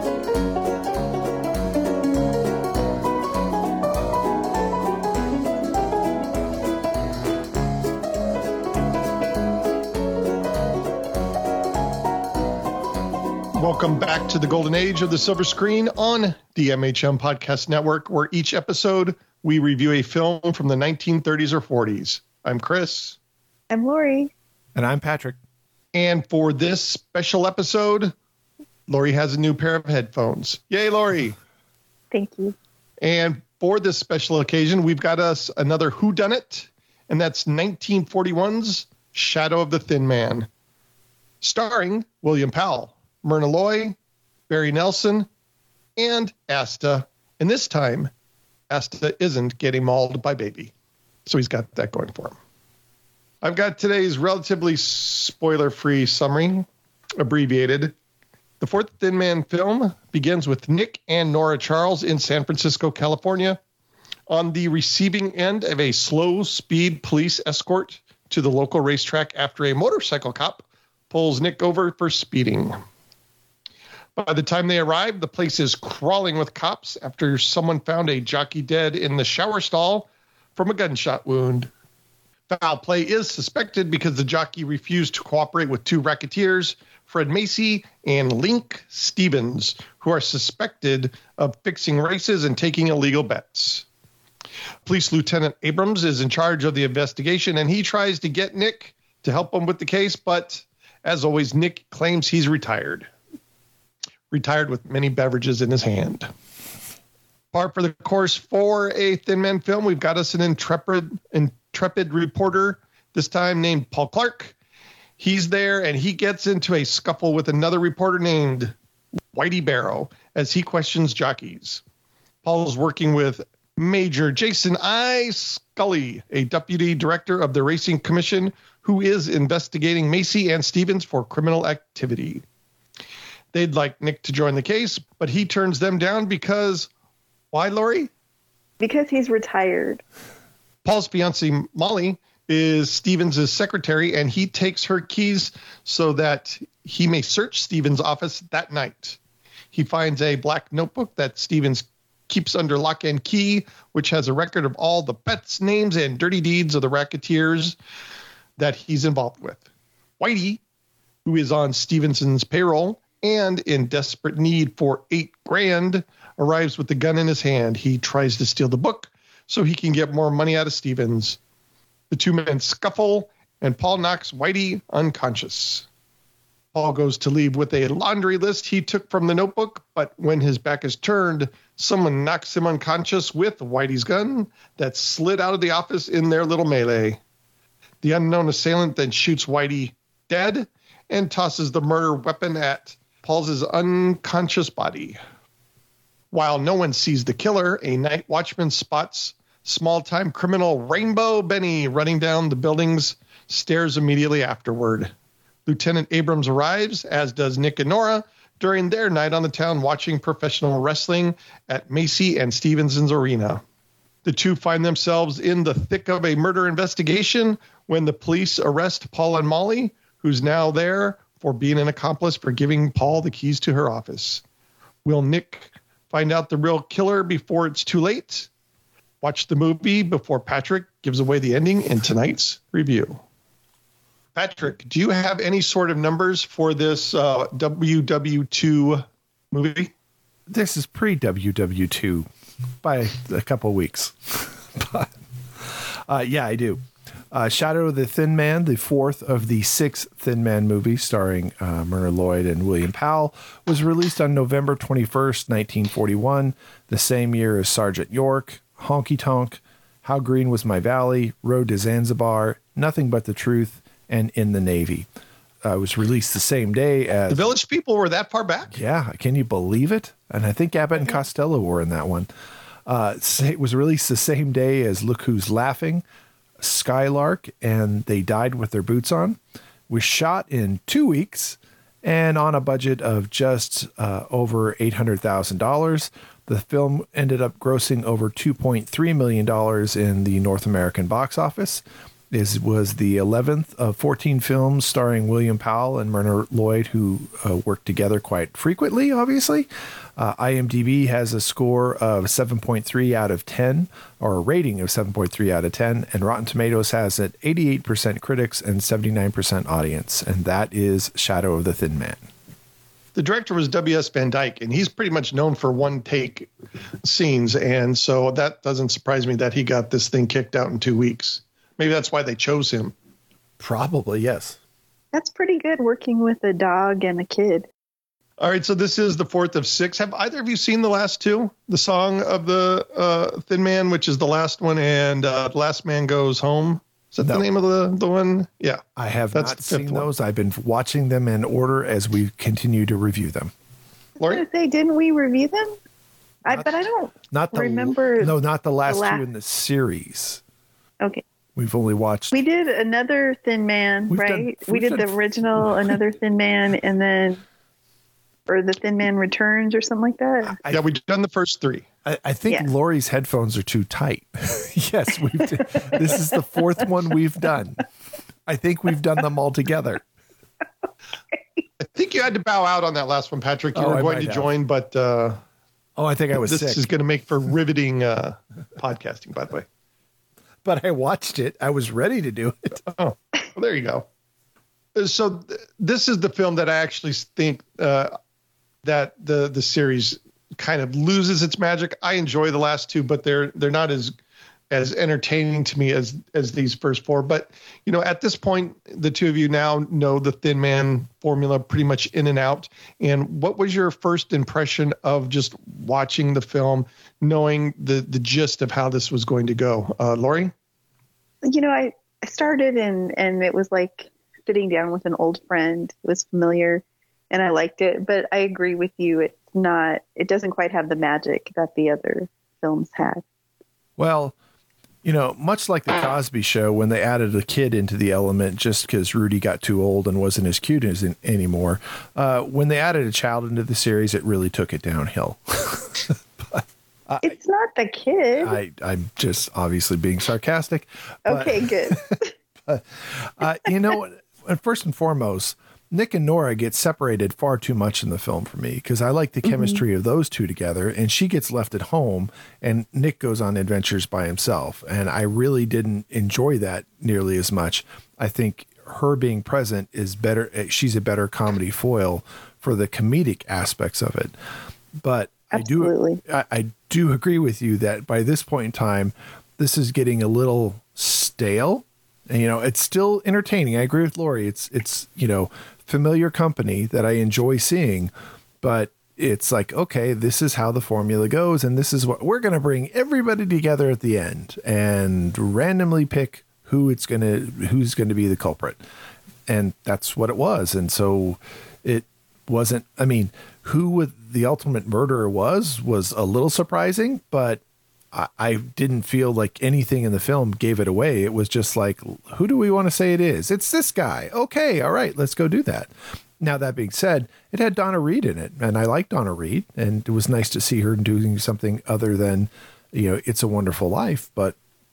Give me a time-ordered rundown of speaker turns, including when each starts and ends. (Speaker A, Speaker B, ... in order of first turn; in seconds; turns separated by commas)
Speaker A: 13.6-23.2, Speaker B: 23.7-24.3, Speaker C: 24.8-25.4, Speaker A: 25.9-28.1, Speaker A: 28.9-31.4, Speaker B: 32.1-32.6, Speaker A: 33.0-40.5, Speaker A: 41.4-44.0, Speaker A: 44.5-45.3, Speaker A: 46.0-48.1, Speaker A: 48.7-50.7, Speaker A: 51.3-52.4, Speaker A: 53.4-56.7, Speaker A: 57.2-58.0, Speaker A: 58.6-63.6, Speaker A: 64.3-72.8, Speaker A: 74.2-81.7, Speaker A: 82.5-93.8, Speaker A: 94.9-103.1, Speaker A: 104.3-106.3, Speaker A: 107.5-114.5, Speaker A: 115.2-118.7, Speaker A: 119.3-121.8, Speaker A: 122.4-132.4, Speaker A: 133.5-136.9, Speaker A: 137.5-138.1, Speaker B: 138.8-140.0, Speaker A: 140.8-149.2, Speaker A: 149.7-157.8, Speaker A: 158.6-159.6, Speaker A: 160.2-160.6, Speaker A: 161.3-171.4, Speaker A: 172.1-175.9, Speaker A: 176.7-187.2, Speaker A: 188.0-195.2, Speaker A: 196.3-205.1, Speaker A: 205.7-213.6, Speaker A: 214.2-224.4, Speaker A: 225.1-228.5, Speaker A: 229.2-233.2, Speaker A: 234.3-239.9, Speaker C: 240.5-242.3, Speaker C: 242.8-246.8, Speaker C: 247.3-265.1, Speaker C: 265.6-267.5, Speaker A: 267.3-268.8, Speaker C: 268.7-272.3, Speaker C: 272.9-276.0, Speaker C: 276.6-279.4, Speaker C: 279.9-312.2, Speaker A: 313.1-316.5, Speaker A: 317.0-322.9, Speaker C: 323.6-324.6, Speaker B: 325.1-327.7, Speaker A: 328.4-340.1, Speaker C: 339.0-343.5, Speaker B: 344.2-345.8, Speaker B: 346.4-348.3, Speaker C: 347.3-350.4, Speaker B: 348.9-349.2, Speaker C: 351.6-352.4, Speaker B: 352.3-357.4, Speaker C: 354.1-356.0, Speaker B: 358.5-360.6, Speaker A: 360.7-361.9, Speaker C: 362.1-367.8, Speaker C: 368.5-370.0, Speaker B: 371.3-371.6, Speaker A: 371.8-375.4, Speaker C: 373.7-374.5, Speaker C: 376.0-376.8, Speaker A: 376.4-379.7, Speaker C: 380.6-382.8, Speaker A: 382.9-384.1, Speaker A: 384.9-388.1, Speaker A: 388.8-394.1, Speaker A: 394.7-410.5, Speaker B: 411.4-423.2, Speaker C: 424.0-424.3, Speaker C: 425.0-437.3, Speaker B: 437.2-438.6, Speaker C: 438.4-442.1, Speaker B: 441.3-442.4, Speaker C: 442.7-464.3, Speaker C: 465.0-478.1, Speaker B: 465.5-466.2, Speaker C: 478.6-488.8, Speaker C: 489.5-497.6, Speaker C: 498.1-514.6